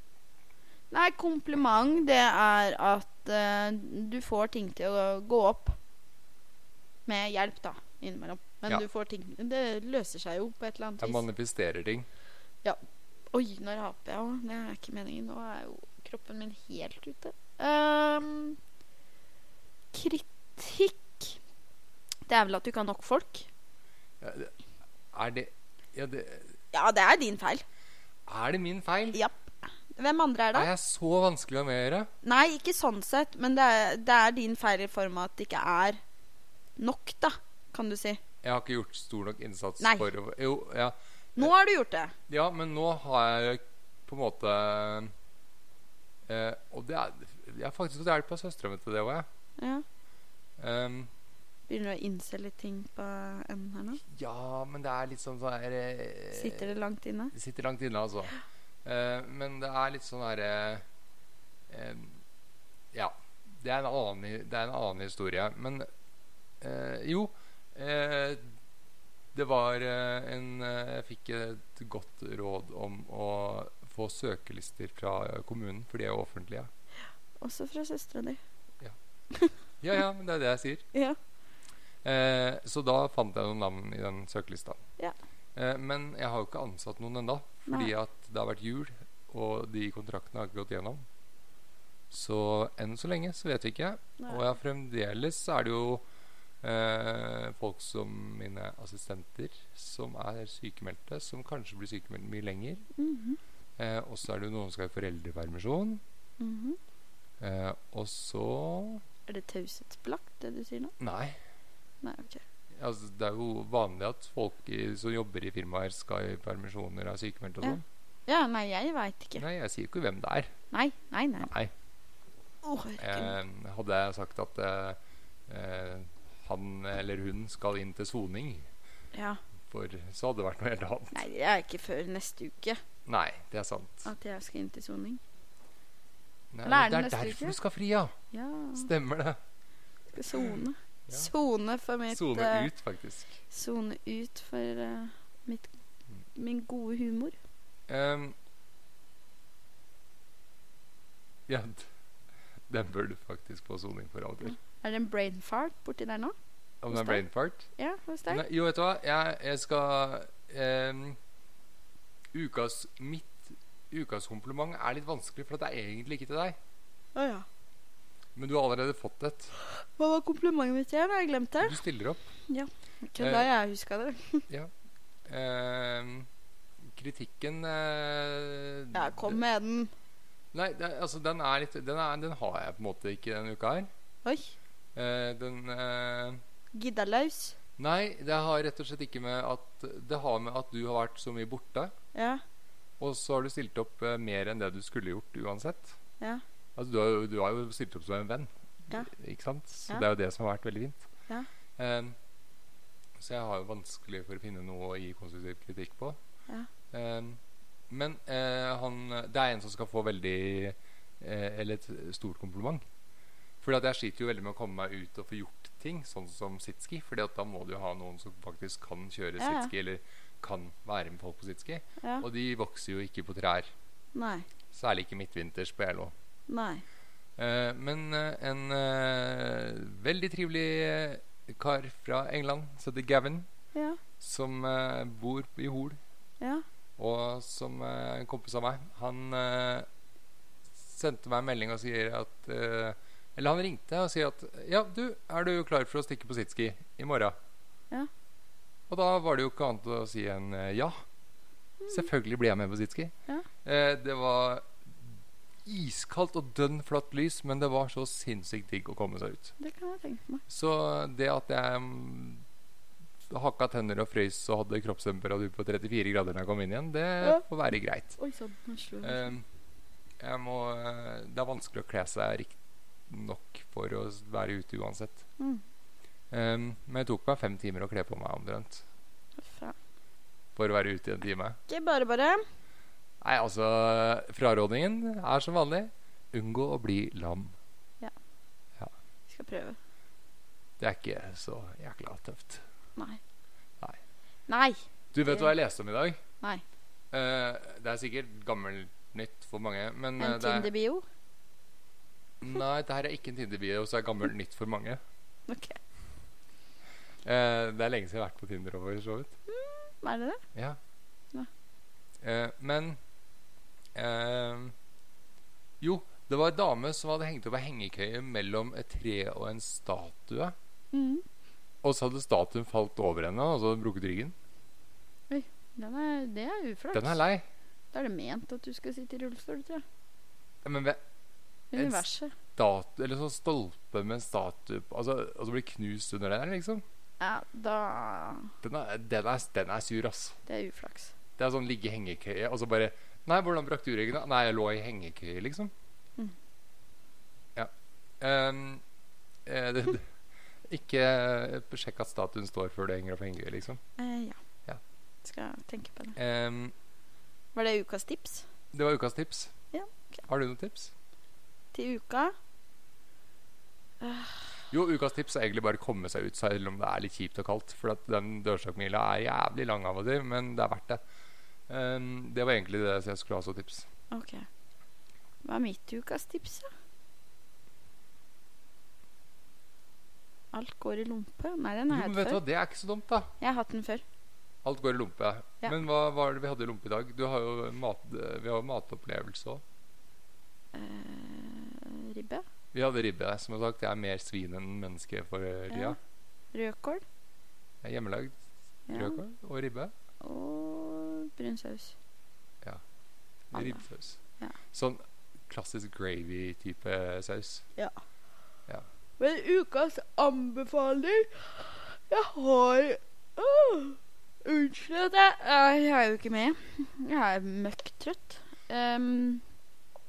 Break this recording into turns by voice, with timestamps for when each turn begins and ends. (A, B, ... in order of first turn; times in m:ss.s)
0:00.9-0:05.8 A
0:07.0-0:11.2 A
0:11.0-0:12.1 B
0:13.3-0:18.6 A
0:19.9-0:21.4 A
0:22.3-0:23.5 A
0:24.2-0:24.5 B
0:25.1-0:26.5 B
0:26.7-0:27.6 A
0:28.2-0:29.2 B
0:29.1-0:30.7 A
0:30.5-0:32.1 B
0:32.2-0:36.0 A
0:36.8-0:38.2 A
0:38.4-0:41.5 B
0:39.8-0:40.1 A
0:41.4-0:42.1 A
0:42.3-0:45.1 B
0:46.3-0:49.2 B
0:49.6-0:49.8 A
0:50.6-0:51.1 B
0:51.7-0:54.0 A
0:54.0-0:56.7 B
0:56.3-0:57.3 A
0:57.3-1:00.8 B
1:01.7-1:02.2 B
1:02.9-1:05.9 B
1:06.6-1:08.4 B
1:09.3-1:16.7 B
1:17.4-1:18.4 A
1:19.8-1:20.8 B
1:22.0-1:24.8 B
1:25.5-1:31.0 B
1:32.1-1:36.0 B
1:34.2-1:34.4 A
1:36.6-1:42.8 B
1:43.0-1:43.4 A
1:43.8-1:46.0 B
1:46.4-1:46.8 A
1:47.4-1:49.0 B
1:49.3-1:50.9 A
1:51.0-1:51.4 B
1:52.0-1:52.4 A
1:52.7-1:57.8 B
1:57.6-1:59.4 A
1:59.4-2:00.5 B
2:00.7-2:01.5 A
2:01.4-2:01.7 B
2:02.6-2:03.3 A
2:03.0-2:08.6 B
2:09.1-2:09.4 A
2:09.7-2:11.2 B
2:11.1-2:12.8 A
2:13.0-2:14.1 B
2:14.0-2:15.2 A
2:16.5-2:18.1 B
2:16.6-2:17.6 A
2:18.3-2:18.9 A
2:18.7-2:19.4 B
2:20.1-2:22.7 A
2:22.1-2:23.4 B
2:23.5-2:25.7 A
2:26.3-2:27.4 A
2:27.9-2:28.4 B
2:31.5-2:31.9 B
2:32.7-2:34.6 B
2:34.7-2:36.3 A
2:36.8-2:37.7 B
2:36.9-2:37.2 A
2:37.8-2:38.4 A
2:38.3-2:41.2 B
2:42.3-2:46.6 B
2:47.2-2:47.4 A
2:48.3-2:49.5 B
2:49.6-2:51.8 A
2:51.6-2:52.3 B
2:52.5-2:54.5 A
2:53.2-2:53.5 B
2:55.2-2:56.3 B
2:56.8-2:59.4 B
2:58.9-2:59.9 A
3:00.5-3:03.9 B
3:04.2-3:04.5 A
3:04.9-3:06.4 B
3:06.7-3:07.6 A
3:07.8-3:11.9 B
3:12.1-3:12.4 A
3:13.0-3:16.0 B
3:16.8-3:21.0 B
3:21.8-3:22.2 B
3:23.2-3:26.2 B
3:26.9-3:32.8 B
3:33.6-3:43.7 B
3:39.4-3:39.7 A
3:44.1-3:44.5 A
3:44.7-3:46.1 B
3:46.5-3:46.8 A
3:47.4-3:53.5 B
3:53.7-3:54.0 A
3:54.2-3:56.0 B
3:57.0-3:59.9 B
4:00.8-4:07.3 B
4:08.9-4:11.0 B
4:11.8-4:12.1 A
4:11.9-4:14.7 B
4:15.6-4:19.5 B
4:19.6-4:20.4 A
4:20.5-4:22.4 B
4:23.3-4:28.2 B
4:28.2-4:29.3 A
4:29.0-4:29.4 B
4:30.2-4:32.6 B
4:33.1-4:35.2 B
4:36.3-4:38.8 B
4:39.4-4:39.7 A
4:40.6-4:41.6 B
4:41.7-4:42.4 A
4:43.2-4:47.5 B
4:49.3-4:49.8 A
4:50.8-4:52.6 B
4:54.5-4:55.5 A
4:55.1-4:56.2 B
4:57.1-5:00.7 B
5:00.2-5:01.0 A
5:02.4-5:05.0 B
5:05.5-5:05.8 A
5:07.2-5:09.3 B
5:09.5-5:10.4 A
5:12.2-5:13.0 B
5:13.9-5:14.7 B
5:15.8-5:20.5 B
5:20.9-5:21.2 A
5:21.8-5:24.3 B
5:25.3-5:27.2 A
5:26.9-5:27.4 B
5:27.9-5:29.8 A
5:30.6-5:31.0 B
5:31.7-5:32.3 A
5:31.7-5:32.0 B
5:32.6-5:36.8 B
5:37.2-5:38.5 A
5:38.6-5:40.4 B
5:40.4-5:41.1 A
5:41.4-5:45.7 B
5:47.5-5:48.8 B
5:49.4-5:50.1 B
5:50.7-5:53.8 B
5:54.0-5:54.4 A
5:55.2-5:56.2 A
5:56.2-5:56.7 B
5:57.5-5:58.4 A
5:58.7-5:59.5 B
5:59.7-6:00.2 A
6:00.3-6:00.9 B
6:01.7-6:02.3 A
6:04.0-6:04.6 A
6:04.7-6:11.0 B
6:11.7-6:13.9 B
6:14.1-6:14.5 A
6:15.4-6:16.7 A
6:20.5-6:22.4 A
6:21.9-6:23.3 B
6:23.4-6:24.0 A
6:24.6-6:29.6 B
6:30.7-6:32.4 A
6:32.7-6:36.0 B
6:35.7-6:36.0 A
6:36.5-6:37.0 A
6:37.8-6:38.4 B
6:38.9-6:39.2 A
6:38.9-6:39.9 B
6:40.2-6:41.9 A
6:43.5-6:44.2 B
6:43.5-6:43.8 A
6:44.7-6:47.6 B
6:49.2-6:59.4 A